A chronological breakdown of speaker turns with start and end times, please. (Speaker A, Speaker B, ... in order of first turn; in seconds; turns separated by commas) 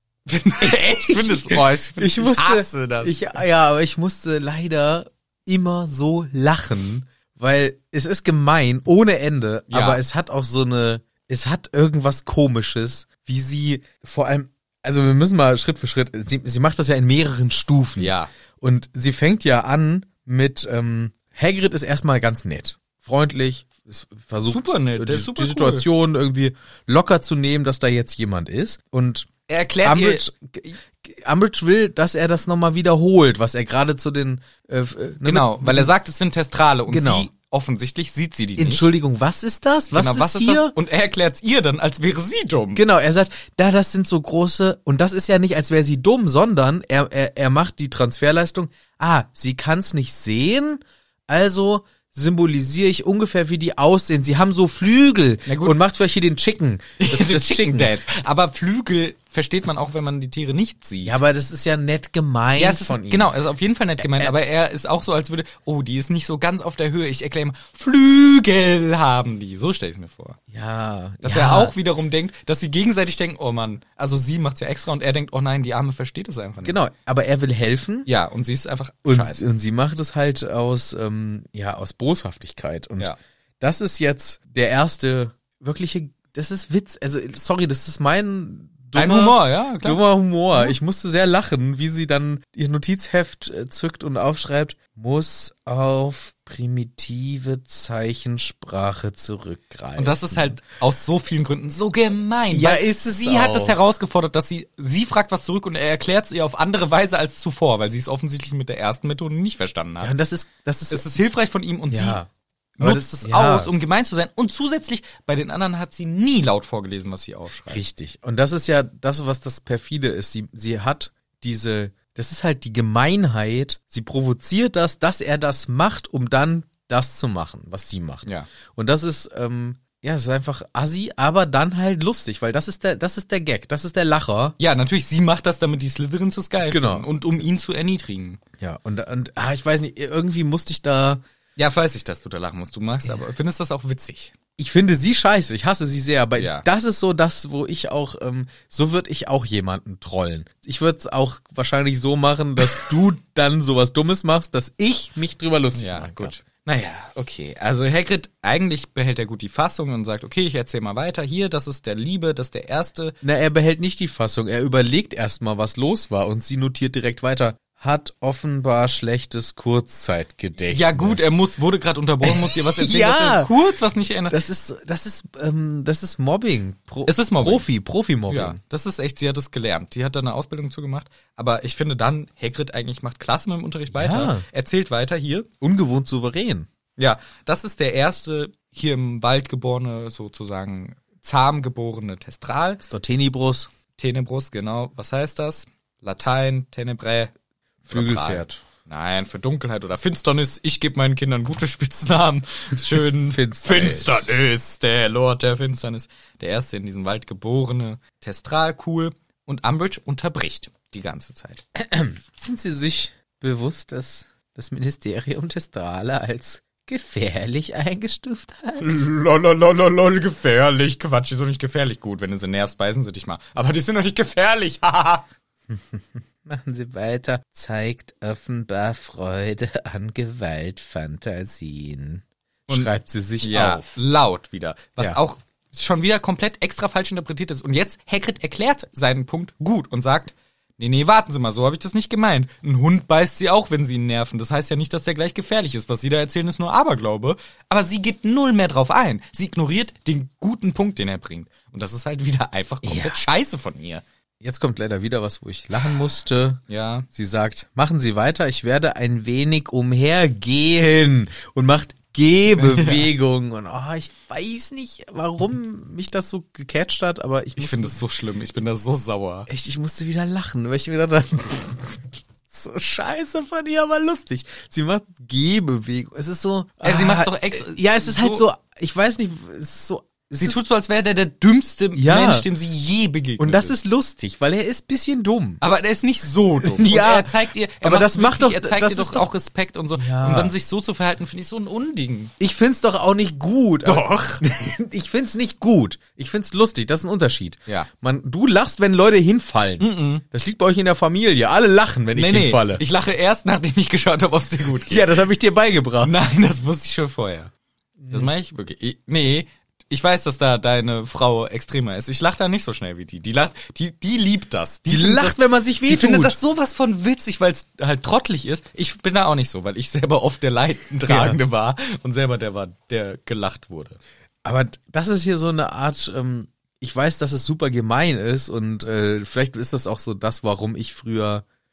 Speaker A: 0.3-3.4, Speaker B: 0.6-29.3, Speaker A: 9.7-10.0, Speaker A: 18.0-18.3, Speaker A: 24.5-25.9, Speaker A: 29.5-30.2, Speaker B: 29.8-35.9, Speaker A: 35.2-38.9, Speaker B: 36.9-37.3, Speaker B: 38.6-40.8, Speaker A: 39.9-42.8, Speaker B: 42.8-57.9, Speaker A: 55.5-55.8, Speaker A: 57.0-61.2, Speaker B: 61.0-63.3, Speaker A: 62.6-70.4, Speaker B: 64.0-64.3, Speaker B: 70.5-71.7, Speaker A: 71.2-76.8, Speaker B: 76.6-78.1, Speaker A: 78.1-79.4, Speaker B: 79.1-100.6, Speaker A: 89.0-90.8, Speaker A: 100.0-110.1, Speaker B: 102.5-103.8, Speaker B: 110.0-111.0, Speaker A: 110.9-112.2, Speaker B: 111.9-112.3, Speaker A: 112.8-117.8, Speaker B: 112.8-113.7, Speaker B: 117.7-134.6, Speaker A: 134.6-138.4, Speaker B: 136.7-137.1, Speaker B: 138.6-141.2, Speaker A: 141.6-144.3, Speaker B: 144.6-156.3, Speaker A: 146.4-146.7, Speaker A: 155.8-163.2, Speaker B: 163.2-171.3, Speaker A: 170.7-174.4, Speaker B: 172.2-173.5, Speaker B: 174.3-178.6, Speaker A: 177.1-177.7, Speaker A: 178.3-185.5, Speaker B: 183.9-184.4, Speaker B: 185.6-186.7, Speaker A: 187.0-192.8, Speaker B: 192.8-193.7, Speaker A: 194.0-197.3, Speaker A: 197.8-211.6, Speaker B: 197.9-198.6, Speaker B: 203.2-204.3, Speaker B: 211.8-219.0, Speaker A: 218.8-225.3, Speaker B: 225.7-234.0, Speaker A: 233.4-254.0, Speaker B: 252.8-253.2, Speaker B: 254.4-267.9, Speaker A: 256.7-257.1, Speaker A: 262.6-263.1, Speaker A: 267.6-269.5, Speaker B: 269.5-280.6, Speaker A: 276.8-278.4, Speaker A: 280.4-283.8, Speaker B: 281.9-282.5, Speaker B: 283.4-285.6, Speaker A: 285.6-292.3, Speaker B: 286.6-289.3, Speaker B: 290.0-290.5, Speaker B: 292.4-302.8, Speaker A: 293.9-294.4, Speaker A: 299.8-300.2, Speaker A: 302.1-305.2, Speaker B: 304.8-306.1, Speaker A: 306.0-307.5, Speaker B: 308.0-308.3, Speaker A: 308.1-324.0, Speaker B: 314.9-316.4, Speaker B: 321.1-321.4, Speaker B: 324.4-331.4